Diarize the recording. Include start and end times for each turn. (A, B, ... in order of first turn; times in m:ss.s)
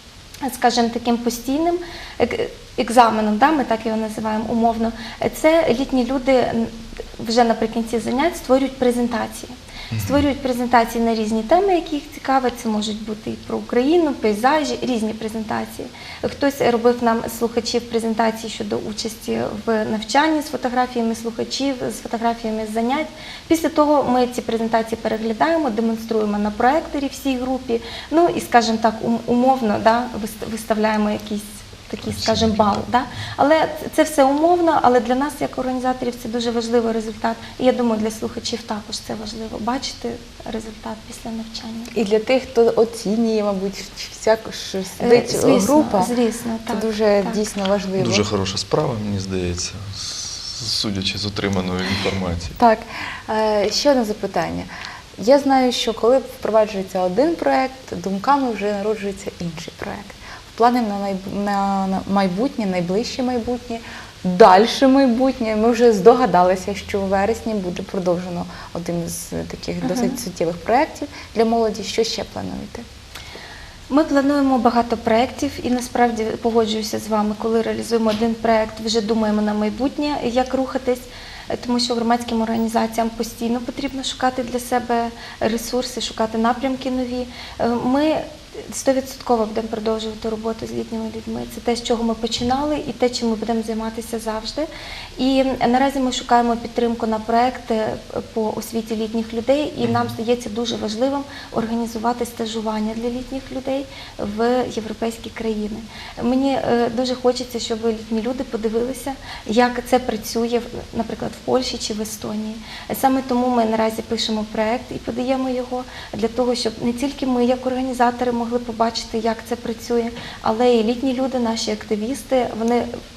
0:00.4-0:41.9 A
0:09.9-0:10.2 B
0:32.1-0:32.8 B
0:41.9-0:46.1 C
0:45.0-0:47.4 A
0:46.7-0:48.2 C
0:48.0-0:52.6 B
0:52.6-1:12.8 C
1:09.8-1:10.2 A
1:13.9-1:34.7 A
1:35.2-2:02.9 A
1:39.8-1:40.1 B